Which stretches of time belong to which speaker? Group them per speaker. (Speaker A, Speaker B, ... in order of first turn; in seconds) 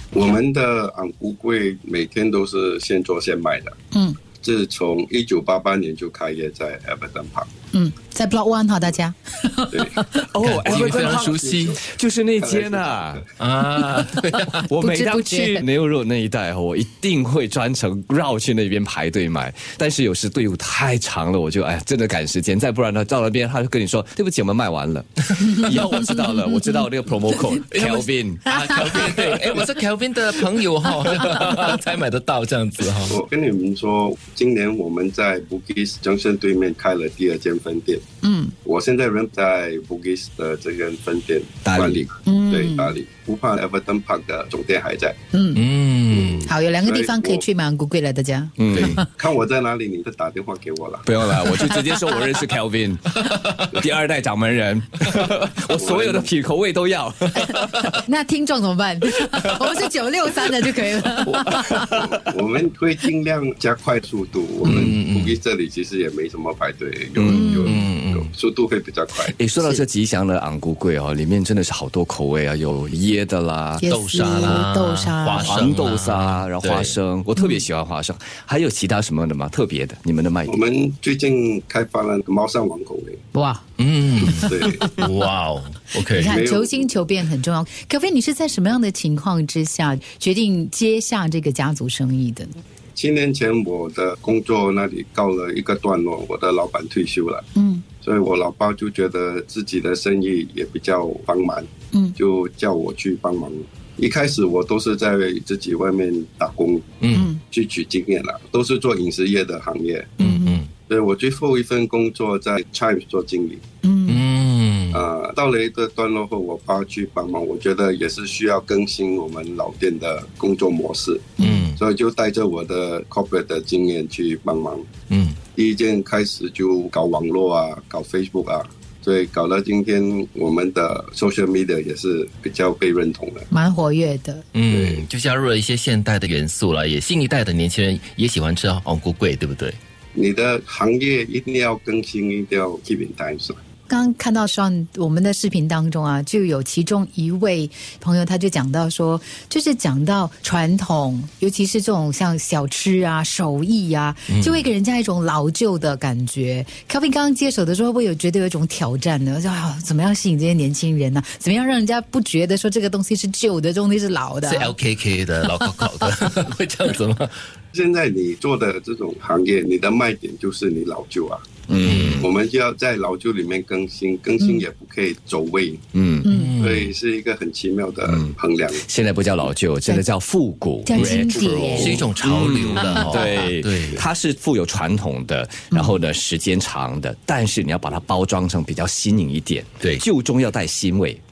Speaker A: 0.1-3.8, 4.4-7.5, 9.7-10.1, 10.6-13.3, 33.0-38.0, 38.6-45.2, 46.1-47.5, 48.8-51.7, 55.7-56.3, 61.9-69.4, 80.5-83.2, 84.2-84.9, 86.2-86.9, 93.0-97.4, 98.0-106.9, 107.5-110.1, 110.9-113.6, 114.9-124.9, 125.5-133.5, 134.7-135.0, 140.1-143.6, 167.7-175.8, 176.6-178.8, 181.0-182.0
Speaker B: 3.9-4.2, 7.7-10.2, 14.7-15.7, 28.6-29.2, 38.2-38.5, 42.2-42.9, 45.3-45.6, 46.5-49.0, 57.4-62.1, 67.3-67.8, 73.8-75.7, 77.4-77.6, 83.3-83.6, 84.2-84.9, 86.0-92.6, 97.6-97.8, 107.1-107.4, 110.2-110.6, 113.8-114.2, 121.4-121.6, 133.5-134.4, 143.9-164.8, 165.4-166.1, 176.2-176.5, 180.8-182.0, 182.8-183.3, 185.7-186.0
Speaker C: 10.3-13.2, 14.6-28.5, 41.6-42.0, 48.6-49.0, 51.0-58.0, 61.3-62.2, 64.7-65.0, 67.2-67.7, 69.3-74.6, 75.4-80.6, 171.7-172.3, 175.9-176.3, 178.1-191.2
Speaker D: 10.4-11.8, 13.4-14.7, 27.7-33.2, 45.5-46.5, 64.6-65.4, 67.7-68.3, 73.9-76.9, 83.8-86.4, 107.0-107.3, 110.2-110.7, 114.1-115.0, 121.4-121.8, 125.1-125.4, 134.5-139.8, 154.3-154.7, 164.4-167.3, 171.8-172.2, 176.3-176.9, 181.7-184.0